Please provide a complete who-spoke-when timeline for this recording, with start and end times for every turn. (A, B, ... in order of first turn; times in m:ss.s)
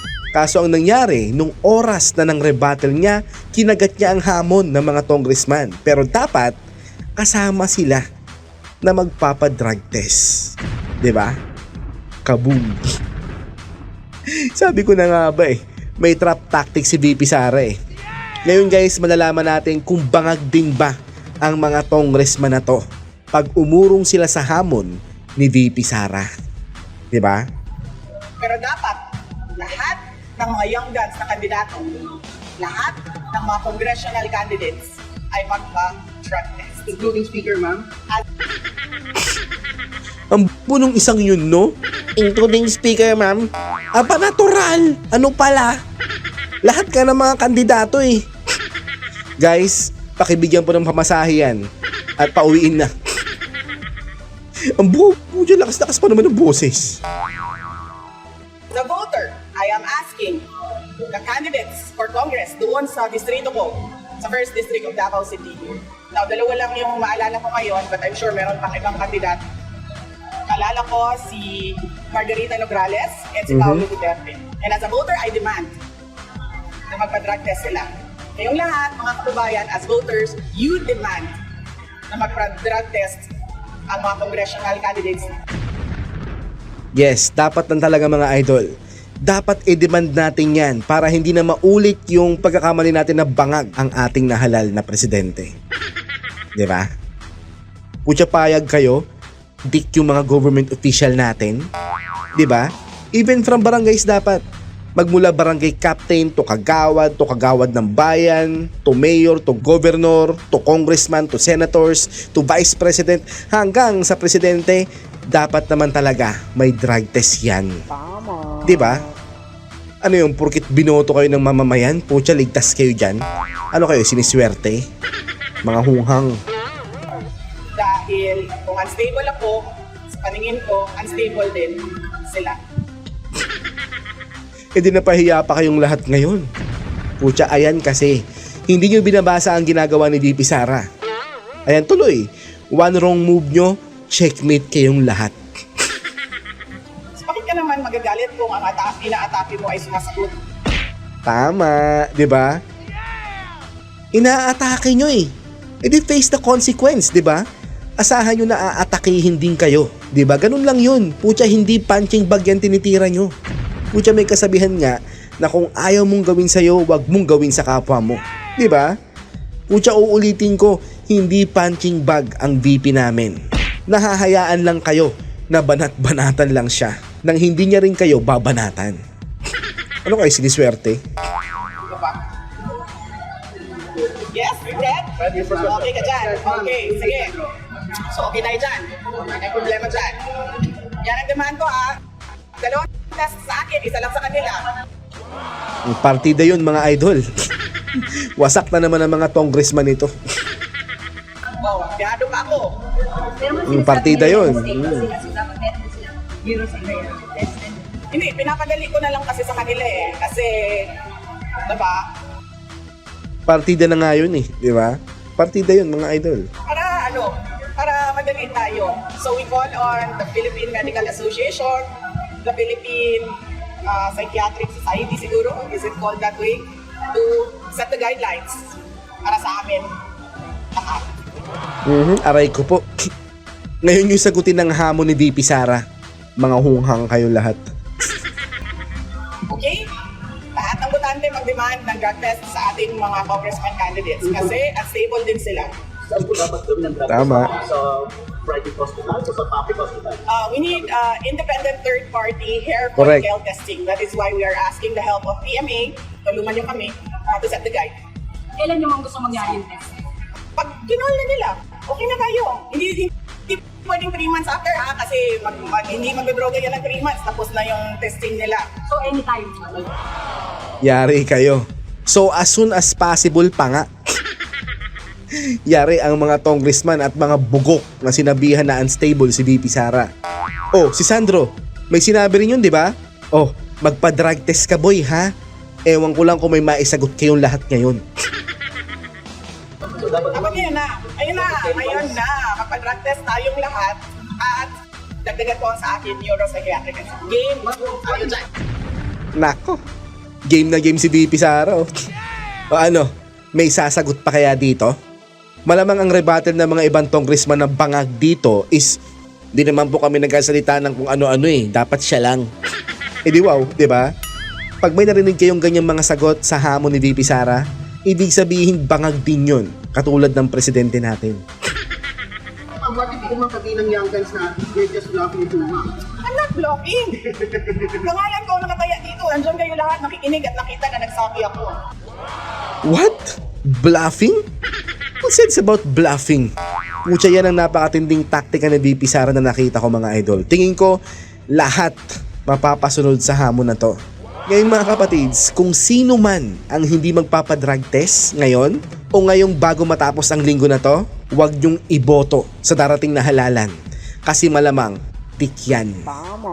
0:00.3-0:06.6 A
0:07.2-0:08.0 A
0:08.8-0:11.4 A
0:12.2-0:12.8 A
0:14.6-0:17.8 A
0:18.4-0:26.3 A
0:27.1-0:27.5 A
0:28.4-0:29.0 B
0:29.6-0:36.9 B
0:36.9-0:37.9 C
0:40.3-0:45.8 A
0:46.6-0:48.3 A
0:49.4-0:51.6 A
0:52.2-0:52.9 A
0:54.8-0:57.0 A
0:58.7-1:00.4 B
1:01.1-1:09.4 B
1:10.5-1:15.7 B
1:13.5-1:13.8 A
1:16.9-1:21.3 B
1:22.1-1:23.3 B
1:23.9-1:25.4 B
1:27.0-1:28.7 A
1:29.2-1:35.5 A
1:36.6-1:36.9 A
1:38.0-1:39.0 A
1:39.6-1:41.7 A
1:42.4-1:44.4 A
1:45.0-1:57.8 A
1:58.6-1:59.0 A
2:00.0-2:04.8 A
2:05.6-2:06.4 A
2:07.8-2:12.6 B
2:14.8-2:16.5 A
2:17.2-2:20.9 A
2:21.7-2:25.4 A
2:27.2-2:30.3 B
2:31.2-2:32.6 A
2:34.1-2:35.3 A
2:35.8-2:37.4 A
2:38.0-2:43.3 A
2:43.9-2:49.0 A
2:49.7-2:59.0 A
3:00.0-3:01.0 A
3:01.9-3:02.2 B
3:04.3-3:07.3 B
3:05.2-3:07.5 C
3:08.1-3:12.0 B
3:12.6-3:14.7 B
3:15.9-3:17.2 A
3:18.4-3:20.1 A
3:21.6-3:22.7 B
3:23.2-3:28.0 D
3:23.7-3:25.1 A
3:28.1-3:31.0 B
3:31.6-3:32.1 B
3:33.5-3:36.5 A
3:36.6-3:41.9 B
3:42.4-3:48.7 B
3:49.2-3:49.9 B
3:50.7-3:51.1 B
3:51.9-3:52.8 A
3:53.8-3:55.8 A
3:56.4-3:57.6 A
3:59.5-3:59.8 B
4:00.5-4:05.7 B
4:06.1-4:10.2 C
4:07.1-4:07.5 A
4:10.3-4:17.9 B
4:13.0-4:13.2 A
4:18.6-4:19.9 D
4:20.6-4:28.7 B
4:28.9-4:29.9 D
4:30.8-4:33.9 A
4:35.7-4:40.1 A
4:40.7-4:45.3 A
4:45.9-4:48.0 A
4:49.8-4:52.2 C
4:50.3-4:58.5 B
4:57.7-4:58.3 C
4:59.4-4:59.8 A
5:00.5-5:01.9 A
5:02.7-5:05.0 A
5:05.7-5:09.0 A
5:09.5-5:12.5 A
5:13.2-5:14.1 A
5:14.8-5:21.4 A
5:22.8-5:25.9 C
5:26.2-5:27.2 B
5:27.3-5:27.9 C
5:28.0-5:31.8 B
5:32.8-5:34.4 A
5:35.2-5:36.5 A
5:37.0-5:41.0 A
5:41.5-5:44.0 A
5:44.5-5:53.7 A
5:54.2-5:56.2 A